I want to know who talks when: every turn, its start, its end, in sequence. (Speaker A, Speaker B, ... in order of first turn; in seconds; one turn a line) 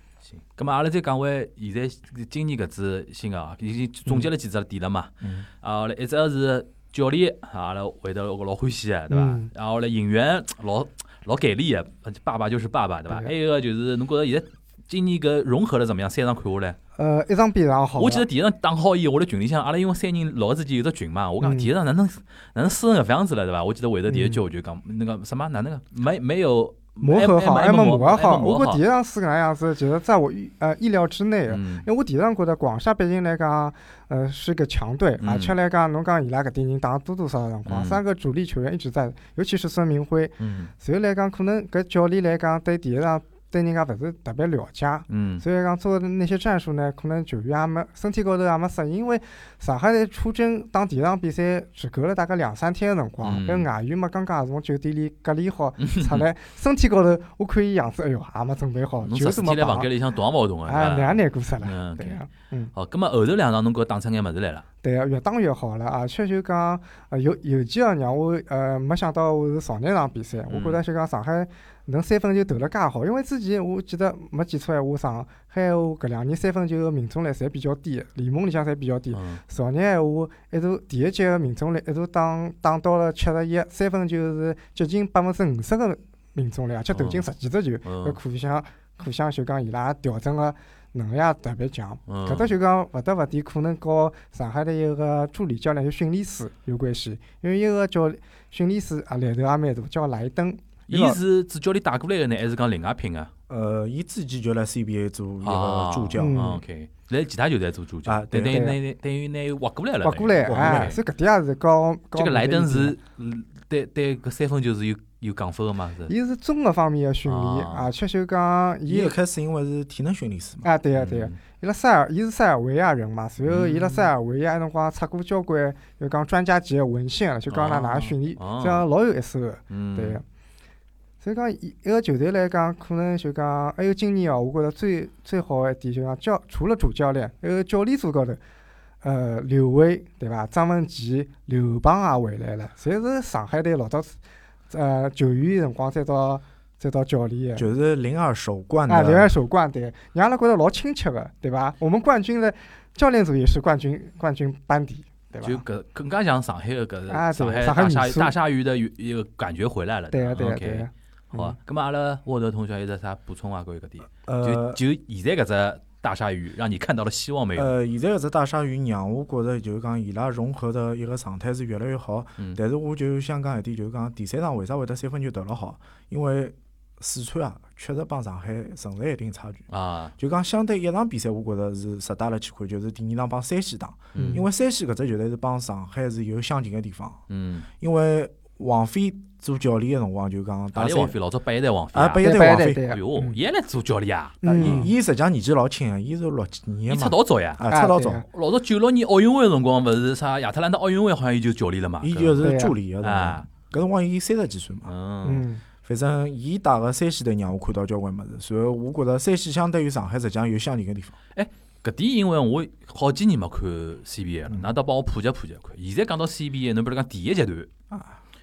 Speaker A: 0.3-16.8
Speaker B: 9.1-9.5
Speaker B: 17.0-18.2
Speaker A: 18.0-28.8
Speaker B: 21.4-21.7
Speaker B: 24.1-24.4
Speaker B: 27.0-59.9
Speaker A: 31.5-31.9
Speaker A: 35.2-35.5
Speaker A: 37.7-38.0
Speaker A: 40.4-40.7
Speaker A: 45.1-45.4
Speaker A: 53.2-53.7
Speaker A: 55.8-56.3
Speaker A: 59.0-62.2
Speaker B: 60.7-62.7
Speaker A: 62.7-64.7
Speaker B: 64.8-101.2
Speaker A: 70.5-70.8
Speaker A: 79.1-79.4
Speaker A: 86.9-87.3
Speaker A: 87.8-88.2
Speaker A: 92.1-92.5
Speaker A: 100.9-103.3
Speaker C: 103.5-106.4
Speaker A: 105.4-111.0
Speaker B: 106.2-106.6
Speaker C: 108.1-108.6
Speaker B: 108.5-108.8
Speaker B: 110.0-113.0
Speaker C: 110.5-111.0
Speaker A: 112.2-116.1
Speaker B: 116.1-119.2
Speaker A: 117.3-117.9
Speaker C: 118.9-120.7
Speaker B: 120.6-130.2
Speaker A: 120.9-121.4
Speaker A: 123.5-124.1
Speaker A: 127.5-128.9
Speaker A: 129.7-130.2
Speaker B: 131.2-138.4
Speaker B: 139.0-144.2
Speaker B: 144.7-147.7
Speaker C: 147.6-149.3
Speaker B: 148.9-155.6
Speaker A: 155.4-167.7
Speaker B: 157.1-158.3
Speaker B: 160.1-161.6
Speaker C: 164.2-164.8
Speaker C: 167.6-179.6
Speaker A: 179.7-180.1
Speaker C: 180.2-187.2
Speaker A: 184.1-184.4
Speaker B: 184.2-184.4
Speaker A: 187.3-187.7
Speaker C: 187.8-191.1
Speaker A: 190.7-194.9
Speaker C: 191.9-192.8
Speaker B: 192.2-193.4
Speaker B: 194.4-194.9
Speaker C: 194.5-198.2
Speaker A: 196.9-197.6
Speaker B: 197.7-198.3
Speaker A: 198.3-202.5
Speaker C: 202.0-204.9
Speaker B: 202.4-202.7
Speaker A: 203.0-203.5
Speaker A: 204.9-205.5
Speaker B: 205.2-205.6
Speaker C: 205.8-211.2
Speaker A: 211.3-217.7
Speaker C: 217.9-218.2